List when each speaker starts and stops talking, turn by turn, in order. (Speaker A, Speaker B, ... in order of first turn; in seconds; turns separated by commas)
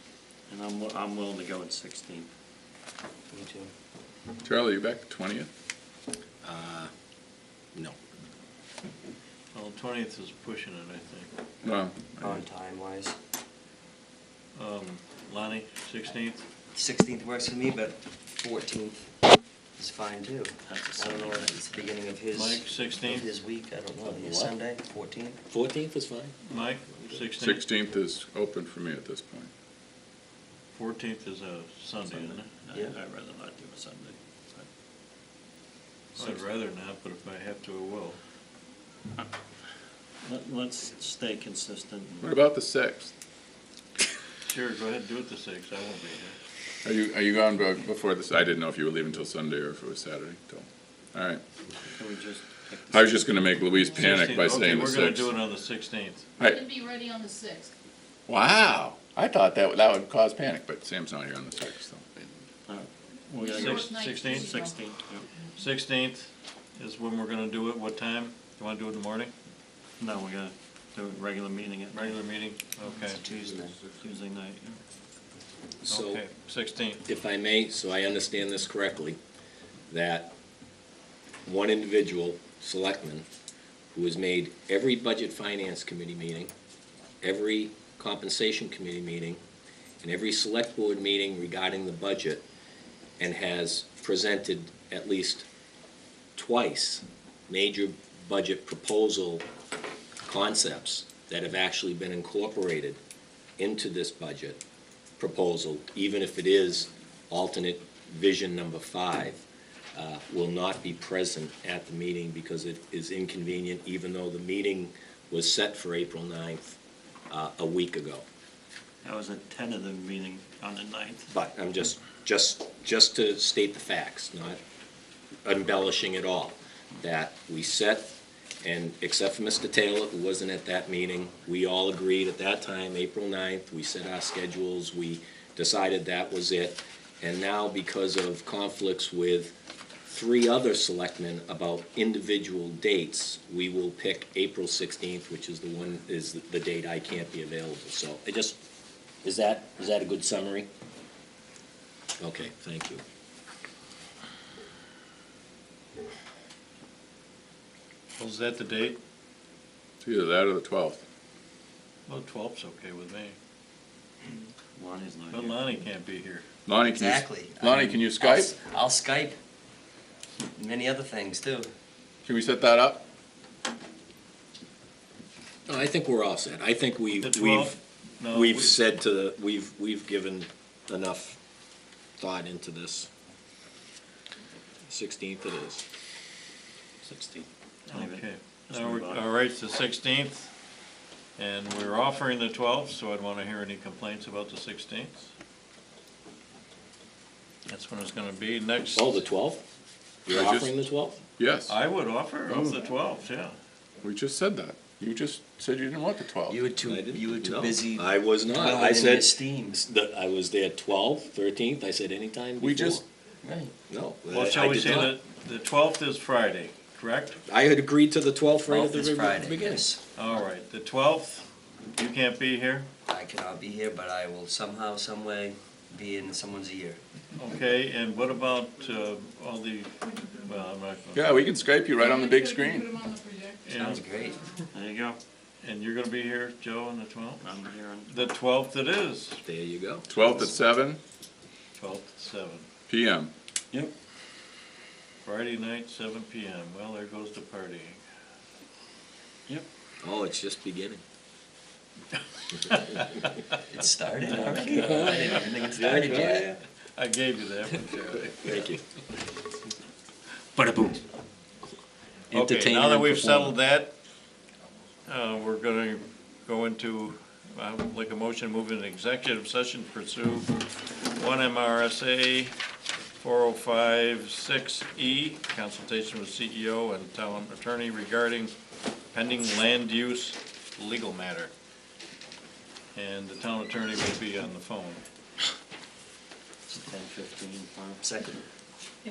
Speaker A: 0.5-2.3, Speaker B: 3.3-3.7, Speaker C: 4.4-5.5, Speaker D: 6.4-6.9, Speaker E: 9.5-11.3, Speaker C: 11.6-12.4, Speaker B: 12.2-13.2, Speaker E: 14.6-16.4, Speaker B: 16.7-19.1, Speaker B: 19.8-25.4, Speaker A: 20.7-21.9, Speaker E: 22.3-23.3, Speaker D: 24.0-24.5, Speaker D: 25.5-26.3, Speaker E: 26.5-27.6, Speaker C: 27.4-29.5, Speaker E: 30.7-32.5, Speaker A: 32.0-34.7, Speaker A: 36.2-36.4, Speaker E: 36.2-38.2, Speaker A: 40.2-42.3, Speaker C: 42.2-43.1, Speaker E: 44.5-46.4, Speaker C: 46.9-51.4, Speaker A: 51.9-53.5, Speaker C: 52.9-55.3, Speaker E: 54.0-56.2, Speaker F: 56.4-57.7, Speaker C: 58.3-62.1, Speaker A: 62.7-65.3, Speaker F: 63.4-64.8, Speaker E: 63.5-64.5, Speaker E: 65.6-69.3, Speaker A: 70.0-72.2, Speaker E: 71.9-73.2, Speaker B: 73.1-73.8, Speaker A: 73.3-74.8, Speaker D: 75.8-76.2, Speaker E: 75.9-77.0, Speaker D: 77.1-79.2, Speaker D: 79.9-80.3, Speaker D: 81.5-83.3, Speaker D: 83.9-86.5, Speaker D: 87.2-89.4, Speaker D: 90.0-92.5, Speaker D: 93.2-95.5, Speaker D: 96.4-99.5, Speaker D: 100.2-103.0, Speaker D: 103.6-104.6, Speaker D: 105.2-116.8, Speaker D: 117.3-118.2, Speaker A: 119.0-121.3, Speaker D: 121.3-124.6, Speaker D: 125.5-139.6, Speaker D: 140.1-148.6, Speaker D: 149.2-150.7, Speaker D: 152.2-153.0, Speaker E: 158.2-159.0, Speaker C: 160.0-161.0, Speaker E: 162.1-163.4, Speaker A: 164.8-165.6, Speaker E: 165.3-166.4, Speaker C: 166.7-168.5, Speaker B: 166.8-169.4, Speaker B: 170.4-171.7, Speaker C: 172.3-173.1, Speaker D: 175.7-177.8, Speaker E: 177.2-178.8, Speaker D: 178.3-181.4, Speaker D: 182.2-183.1, Speaker D: 184.9-185.8, Speaker A: 187.1-189.3, Speaker E: 187.9-190.5, Speaker E: 191.4-195.3, Speaker E: 197.7-199.2, Speaker D: 198.9-199.6, Speaker D: 200.3-201.2, Speaker C: 200.3-200.7, Speaker C: 201.4-201.7, Speaker E: 201.7-203.6, Speaker C: 204.0-206.7, Speaker B: 206.5-209.8, Speaker D: 206.8-213.0, Speaker C: 212.6-213.0, Speaker B: 213.4-213.7, Speaker D: 213.9-215.2, Speaker E: 214.3-217.4, Speaker D: 217.5-219.9, Speaker B: 218.7-220.0, Speaker E: 220.2-222.9, Speaker B: 223.1-227.0, Speaker E: 227.3-231.6, Speaker C: 231.1-232.9, Speaker F: 232.0-233.7, Speaker E: 233.7-234.1, Speaker B: 233.8-234.4, Speaker A: 234.7-235.2, Speaker E: 235.6-237.5, Speaker A: 237.4-238.3, Speaker E: 238.1-239.4, Speaker D: 239.4-240.1, Speaker C: 240.1-241.0, Speaker E: 241.8-242.7, Speaker C: 242.9-243.3, Speaker E: 245.2-248.0, Speaker D: 250.0-251.0, Speaker E: 252.6-253.3, Speaker B: 253.7-256.6, Speaker D: 254.3-256.6, Speaker E: 254.7-255.1, Speaker E: 256.9-258.3, Speaker D: 258.1-258.8, Speaker D: 260.6-261.0, Speaker D: 262.3-263.6, Speaker E: 262.3-263.9, Speaker E: 265.1-272.6, Speaker E: 273.2-278.6, Speaker E: 279.1-281.5, Speaker E: 282.9-285.0, Speaker A: 286.7-288.1, Speaker B: 288.0-288.4